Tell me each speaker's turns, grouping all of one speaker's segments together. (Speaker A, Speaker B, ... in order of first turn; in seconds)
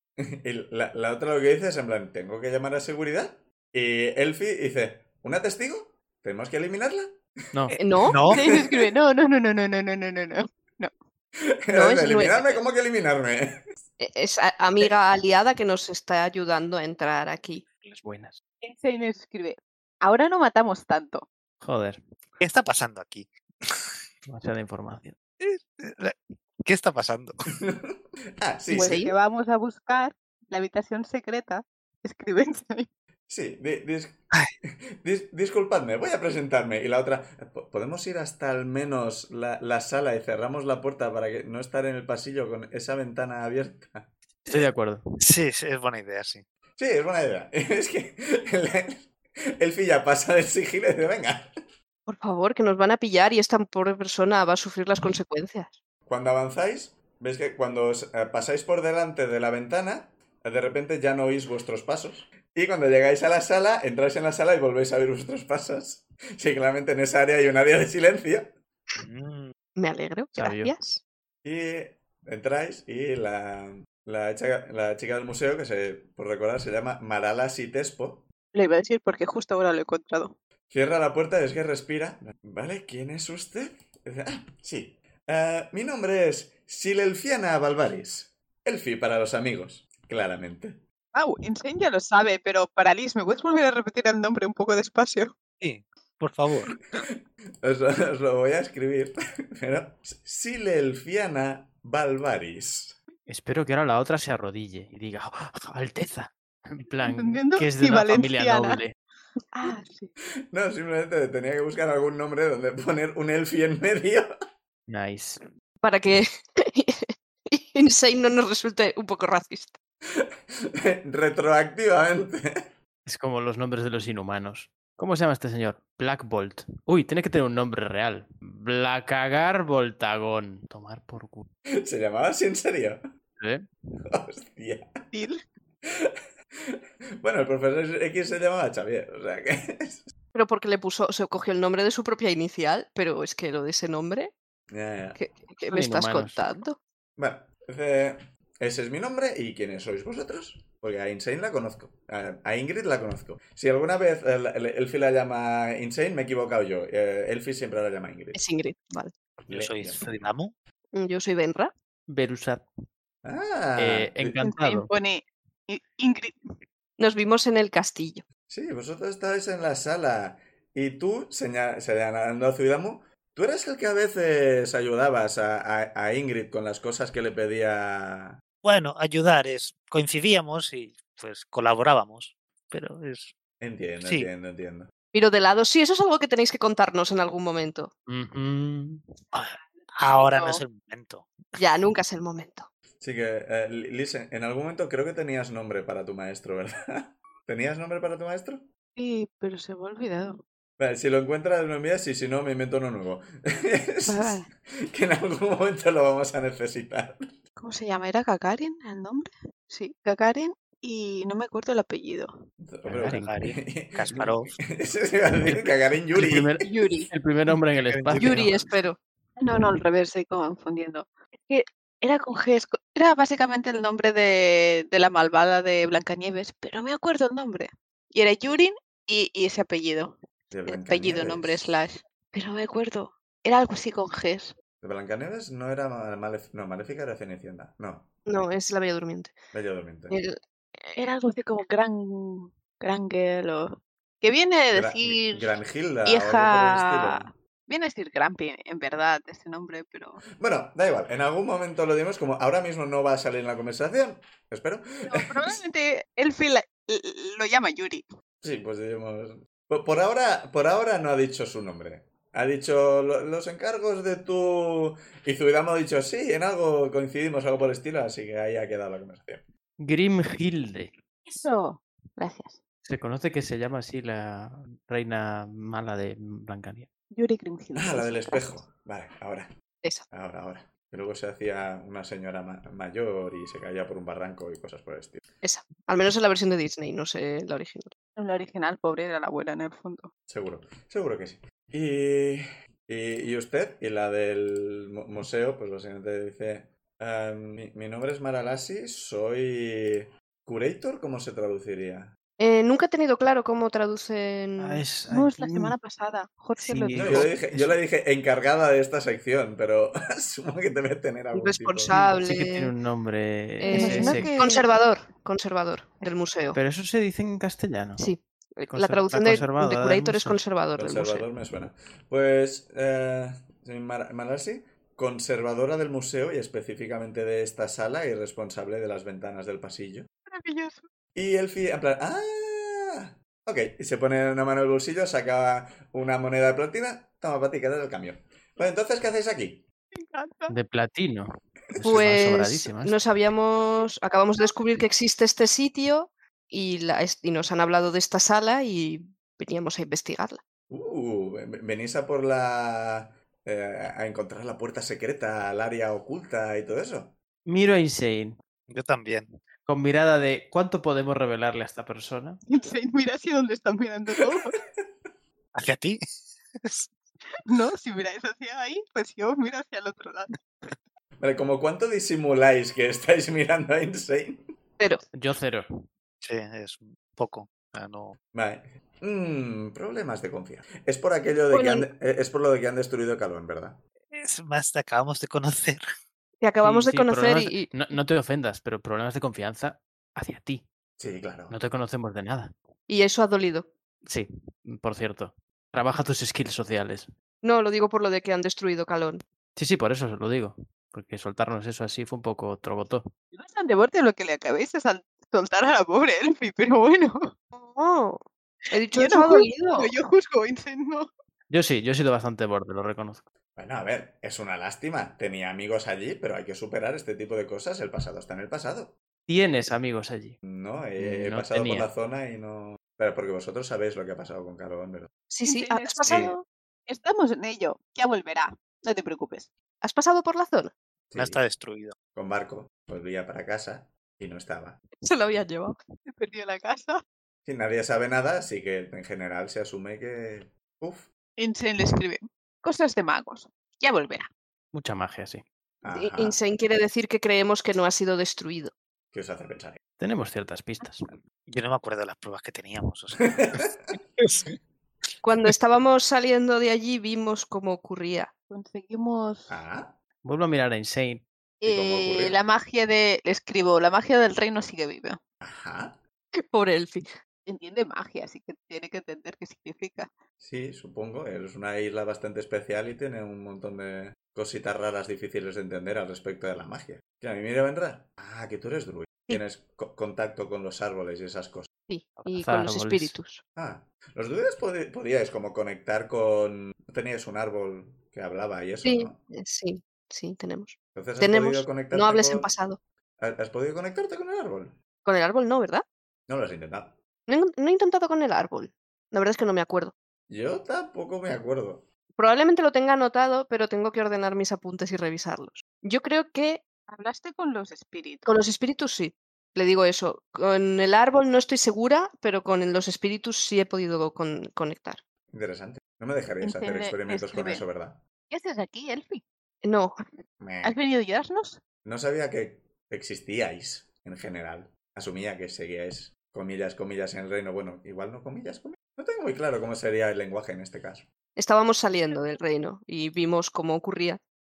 Speaker A: 0.2-7.8, 8.3-8.9, 11.4-13.6, 27.7-29.0, 33.3-44.1, 46.8-51.6, 56.0-68.5, 71.4-78.3, 80.7-90.8, 97.6-103.0, 110.5-114.3, 120.2-122.7, 131.8-133.0, 134.1-135.0, 135.8-140.1, 144.7-145.2, 147.2-158.4, 159.5-160.1, 163.2-164.3, 168.5-178.4, 183.6-184.9, 193.0-198.7, 200.8-207.3, 212.6-216.5, 230.5-231.8, 234.8-238.1, 239.5-240.2, 244.7-247.3, 250.4-255.6, 258.4-269.4, 277.8-279.5, 280.1-285.2, 290.3-302.1, 307.0-311.9, 320.8-330.1, 331.1-339.6, 341.7-342.1, 350.7-357.1, 371.2-374.5, 378.3-383.8, 391.0-391.5, 413.6-418.9, 420.4-425.1, 431.1-431.4, 432.1-434.8, 437.4-441.1, 445.8-446.4, 449.1-449.8, 453.2-453.9, 459.5-460.0, 461.6-462.4, 465.4-466.0, 470.4-481.7, 483.6-489.2, 490.9-492.5, 493.2-494.8, 496.3-497.0, 500.3-501.9, 515.3-518.0, 520.4-520.8, 521.8-531.1
Speaker B: 7.8-8.3, 11.7-12.6, 14.0-17.6, 28.7-29.1, 52.1-55.8, 69.8-71.0, 115.8-119.8, 140.3-144.3, 145.2-146.8, 158.3-159.1, 160.9-161.7, 167.0-168.2, 185.1-187.9, 191.6-192.7, 216.7-217.0, 218.2-219.0, 238.3-239.3, 240.1-241.0, 285.4-287.9, 302.4-304.8, 311.3-312.7, 313.6-316.6, 318.0-321.2, 341.8-350.4, 381.5-381.9, 386.4-387.9, 392.9-393.7, 397.4-399.2, 407.5-409.9, 425.3-426.3, 429.8-430.7, 435.0-435.8, 445.9-448.7, 455.2-458.3, 466.5-467.1, 481.9-483.4, 488.8-492.8, 495.0-495.8, 497.3-499.9, 502.2-506.7, 508.2-515.0, 519.6-520.0, 531.4-534.2
Speaker C: 8.1-8.4, 22.4-23.9, 25.4-27.4, 45.2-46.4, 69.0-69.5, 95.6-96.8, 159.5-160.5, 178.6-183.3, 184.0-184.3, 189.3-191.5, 213.1-214.5, 217.8-218.6, 358.7-359.3, 365.5-366.9, 376.2-378.2, 384.1-385.8, 431.1-431.9, 451.5-454.6
Speaker D: 8.3-10.9, 18.6-21.3, 28.7-32.9, 78.5-80.3, 91.1-95.3, 107.0-108.8, 109.5-110.1, 135.1-135.4, 164.4-166.3, 190.2-190.6, 198.9-200.4, 204.0-204.5, 207.6-212.4, 219.4-234.5, 241.0-250.2, 255.0-258.1, 271.2-272.6, 277.1-278.6, 288.2-290.1, 305.1-307.3, 313.6-314.7, 330.3-330.9, 339.9-340.5, 362.5-364.6, 367.5-370.7, 403.3-407.3, 408.9-411.1, 425.4-429.5, 436.1-437.0, 441.4-444.3, 458.5-459.6, 461.6-465.2, 467.4-470.1, 506.9-508.3, 516.4-517.6, 518.3-519.2, 520.6-521.6
Speaker E: 17.8-18.4, 21.6-22.0, 24.3-25.1, 44.5-45.0, 70.3-70.7, 103.3-108.9, 114.9-115.4, 123.0-131.5, 133.4-133.7, 145.7-146.4, 162.1-162.7, 163.8-164.9, 188.1-189.0, 212.8-213.3, 216.1-218.6, 269.8-270.9, 272.8-276.9, 304.6-305.7, 306.6-307.8, 311.9-314.3, 316.5-318.1, 318.7-320.4, 340.5-342.9, 357.4-358.4, 359.6-362.4, 375.1-375.7, 386.6-390.7, 391.5-392.5, 394.1-397.1, 399.6-403.1, 411.5-413.2, 419.3-420.4, 421.0-421.9, 444.7-445.4, 450.0-451.1, 460.2-461.2, 482.4-483.1